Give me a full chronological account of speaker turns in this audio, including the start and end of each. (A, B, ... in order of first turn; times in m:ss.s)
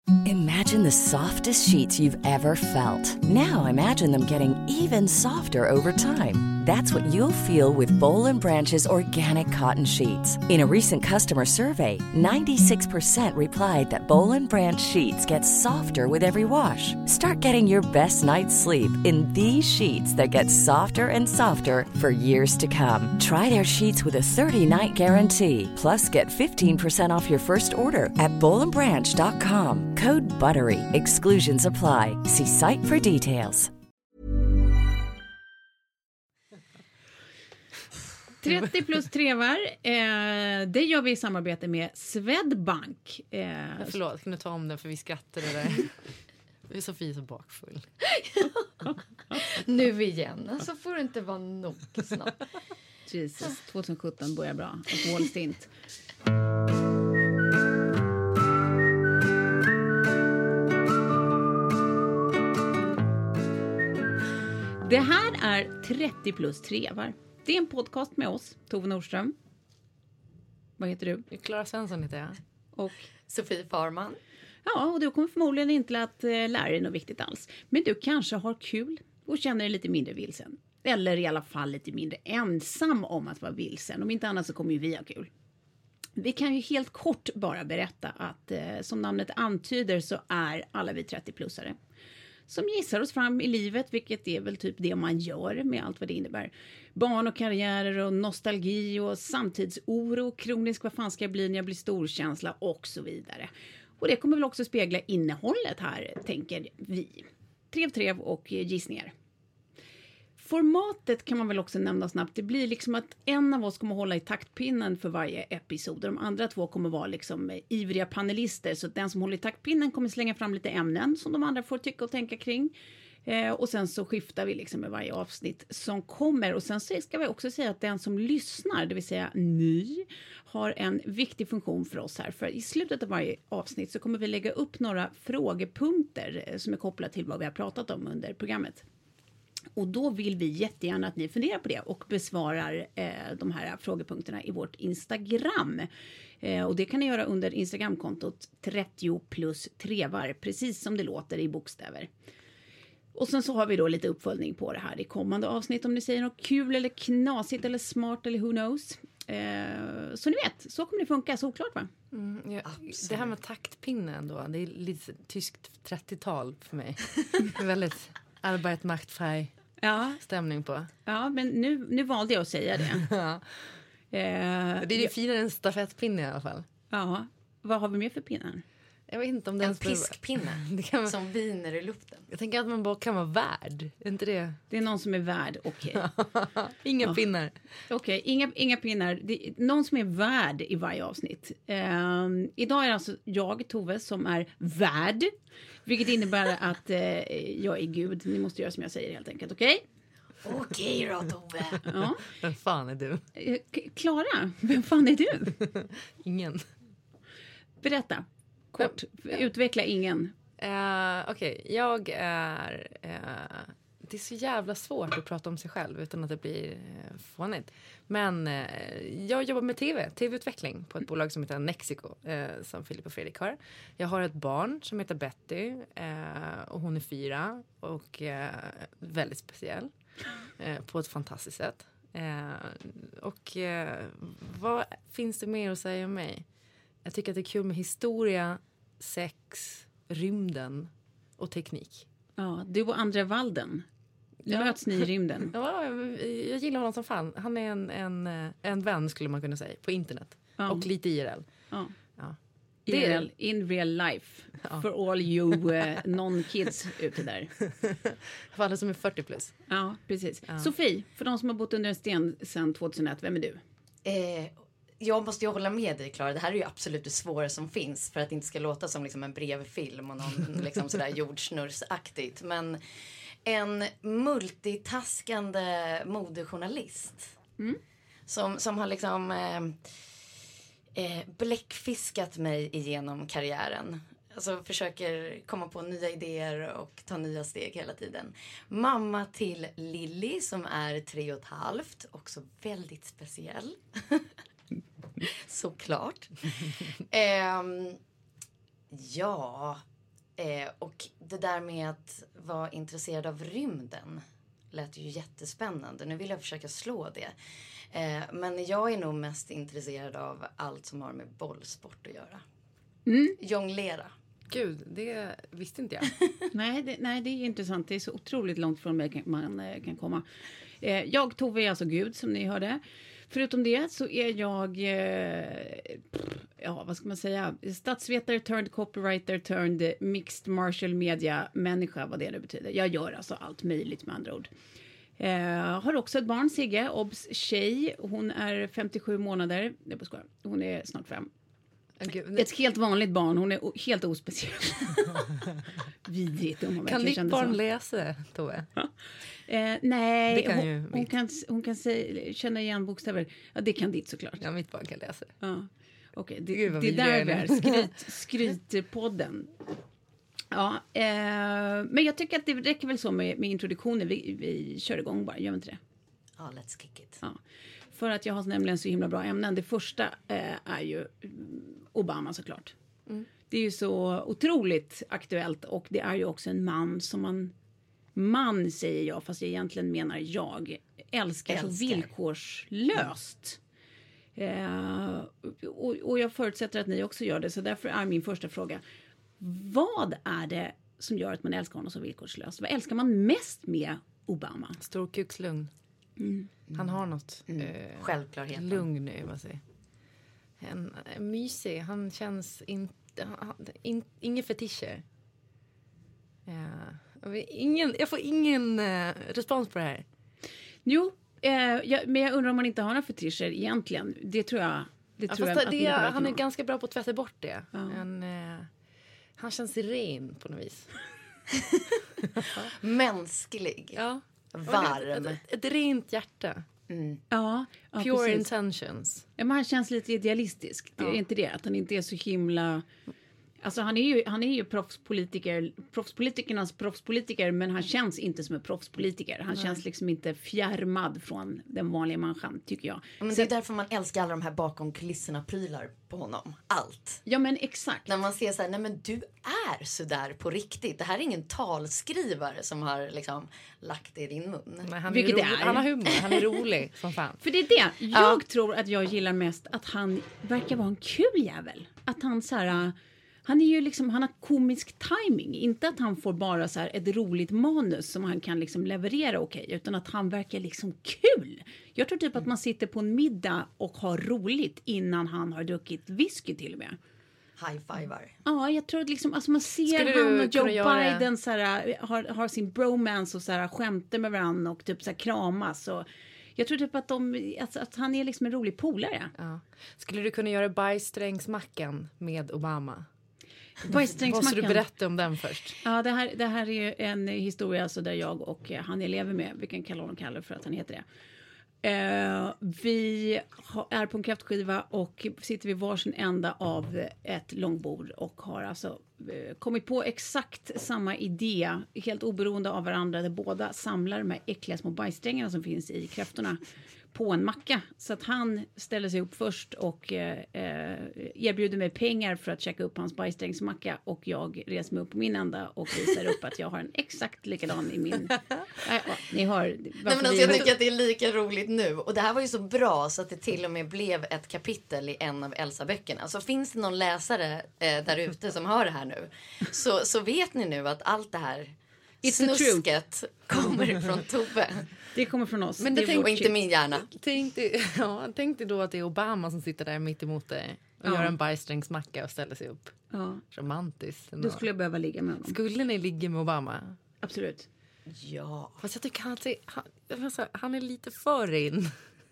0:00.2-0:33.7 A
0:38.4-0:44.0 B
0:43.8-0:45.9 C
0:46.7-0:47.9 C
0:48.2-0:52.4 D
0:53.1-0:55.7 B
1:04.8-1:09.4 B
1:10.8-1:11.3 B
1:11.3-1:12.4 C
1:12.8-1:13.1 B
1:13.3-1:14.2 D
1:14.6-1:25.3 B
1:26.2-1:31.8 B
1:32.5-1:49.1 B
1:50.4-2:02.7 B
2:03.3-2:18.8 B
2:19.8-2:25.9 B
2:26.4-2:32.1 B
2:33.1-2:41.9 B
2:42.1-2:49.5 C
2:42.6-2:43.3 D
2:49.8-2:50.2 B
2:50.2-2:50.9 C
2:51.1-2:53.1 B
2:53.0-2:53.4 C
2:54.1-2:55.1 B
2:54.8-2:56.7 C
2:56.9-2:58.6 B
2:59.1-3:01.1 C
2:59.6-3:02.3 D
3:02.3-3:04.6 C
3:04.7-3:06.1 B
3:06.0-3:07.5 C
3:07.9-3:15.3 B
3:15.8-3:19.8 B
3:20.4-3:21.9 D
3:21.9-3:22.2 B
3:22.3-3:23.2 C
3:23.4-3:25.6 B
3:25.6-3:26.7 C
3:27.8-3:30.3 B
3:30.6-3:49.9 C
3:50.6-3:56.4 C
3:57.0-4:02.1 C
4:02.4-4:03.9 B
4:04.5-4:05.5 B
4:04.5-4:11.4 C
4:10.6-4:10.9 B
4:12.2-4:13.3 C
4:12.9-4:17.5 B
4:17.7-4:18.0 C
4:18.5-4:19.6 C
4:19.7-4:23.6 B
4:24.0-4:32.8 D
4:33.4-4:37.3 D
4:38.3-4:39.8 D
4:41.0-4:54.3 D
4:55.2-4:58.0 D
4:58.9-4:59.8 D
5:00.4-5:04.2 D
5:04.7-5:07.4 D
5:07.9-5:12.4 D
5:13.1-5:13.4 B
5:13.4-5:14.1 D
5:14.5-5:16.1 C
5:16.5-5:20.2 B
5:20.8-5:34.5 B
5:35.2-5:41.3 B
5:42.0-5:42.5 C
5:42.3-5:45.4 B
5:46.1-5:47.6 B
5:46.8-5:48.7 C
5:49.5-5:54.4 B
5:50.3-5:51.1 C
5:54.4-5:55.3 C
5:55.4-5:59.5 B
5:56.5-5:57.9 C
6:00.5-6:05.8 B
6:06.4-6:07.2 D
6:07.9-6:12.7 B
6:13.5-6:17.5 B
6:18.2-6:23.6 B
6:21.5-6:22.1 D
6:24.4-6:28.8 B
6:29.4-6:34.8 B
6:34.8-6:35.7 C
6:36.2-6:36.5 B
6:36.7-6:38.9 D
6:36.8-6:39.6 C
6:40.6-6:45.0 C
6:46.5-6:50.0 C
6:50.9-6:56.4 B
6:55.3-6:58.7 C
6:57.7-6:58.0 B
6:59.4-7:00.9 C
7:01.5-7:01.8 D
7:02.6-7:04.0 D
7:04.0-7:06.6 C
7:04.5-7:05.4 D
7:06.9-7:07.2 D
7:07.3-7:08.5 B
7:08.0-7:09.2 C
7:09.4-7:12.9 B
7:13.6-7:23.5 B
7:23.2-7:27.2 D
7:27.3-7:28.1 B
7:28.1-7:34.9 D
7:34.8-7:37.4 C
7:35.1-7:36.3 B
7:37.4-7:57.0 B
7:38.1-7:38.4 D
7:57.6-7:58.3 D
7:58.4-8:09.3 B
7:59.9-8:01.3 C
8:09.4-8:13.1 C
8:13.9-8:15.8 C
8:13.9-8:14.8 B
8:15.8-8:21.0 B
8:21.8-8:36.6 B
8:37.1-8:50.7 B
8:50.0-9:04.9 D
9:02.2-9:02.9 B
9:05.1-9:06.5 B
9:05.8-9:13.0 C
9:06.2-9:07.1 D
9:11.0-9:11.3 B
9:13.1-9:13.4 B
9:13.5-9:14.6 C
9:14.4-9:15.6 B
9:15.4-9:17.0 C
9:17.2-9:17.7 B
9:18.1-9:18.8 D
9:18.8-9:22.0 C